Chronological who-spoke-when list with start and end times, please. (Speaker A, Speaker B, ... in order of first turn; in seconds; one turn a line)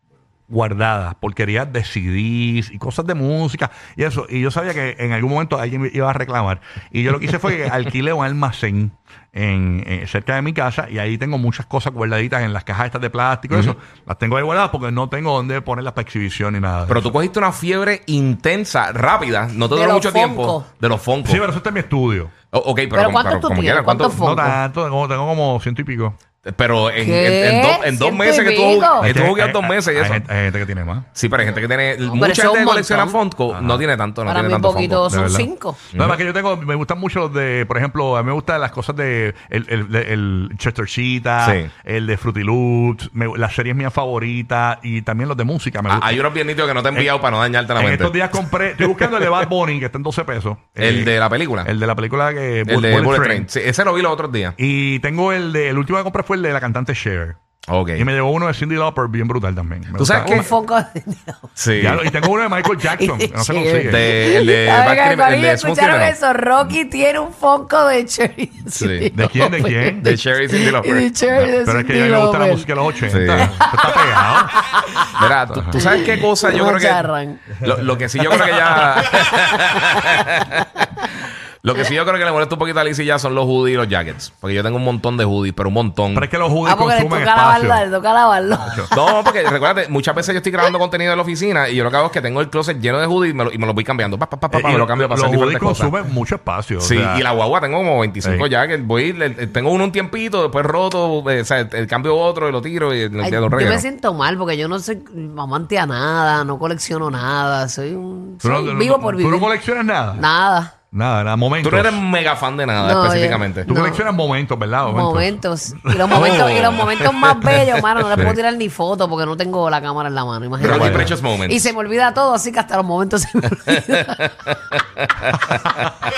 Speaker A: 0.5-17.1
Speaker B: 13.5-13.8
Speaker B: 16.9-21.4
Speaker C: 19.7-20.7
Speaker A: 21.2-22.3
Speaker B: 22.5-24.2
Speaker C: 22.9-24.6
Speaker A: 24.1-26.2
Speaker B: 26.4-30.3
Speaker C: 27.0-29.1
Speaker A: 29.0-31.1
Speaker B: 31.1-35.1
Speaker C: 32.0-33.2
Speaker A: 33.5-33.9
Speaker C: 34.3-35.8
Speaker A: 35.1-46.2
Speaker B: 35.9-36.2
Speaker B: 41.4-41.7
Speaker B: 45.9-48.2
Speaker A: 47.8-53.5
Speaker B: 48.9-49.4
Speaker B: 50.8-51.7
Speaker B: 52.7-54.6
Speaker A: 54.6-57.4
Speaker B: 57.7-58.1
Speaker A: 58.0-60.5
Speaker B: 60.0-60.5
Speaker C: 60.2-61.5
Speaker B: 61.6-62.0
Speaker A: 61.8-64.1
Speaker C: 62.7-72.7
Speaker B: 63.9-66.2
Speaker B: 68.8-69.1
Speaker A: 69.1-70.1
Speaker B: 70.0-71.1
Speaker A: 71.3-74.6
Speaker B: 73.1-73.5
Speaker C: 73.2-75.0
Speaker B: 75.2-77.1
Speaker A: 75.5-75.8
Speaker C: 75.7-77.4
Speaker B: 77.6-80.6
Speaker C: 78.3-80.2
Speaker B: 81.6-86.3
Speaker A: 86.1-87.8
Speaker C: 86.7-88.9
Speaker A: 88.6-88.9
Speaker B: 88.9-95.9
Speaker A: 94.5-97.2
Speaker B: 96.8-103.8
Speaker A: 98.2-98.5
Speaker C: 103.2-109.5
Speaker A: 108.4-110.2
Speaker C: 110.1-110.7
Speaker A: 110.9-112.0
Speaker B: 111.6-113.7
Speaker C: 112.8-114.1
Speaker A: 113.7-117.5
Speaker C: 114.8-124.3
Speaker B: 116.2-116.7
Speaker B: 120.6-121.7
Speaker A: 120.6-121.1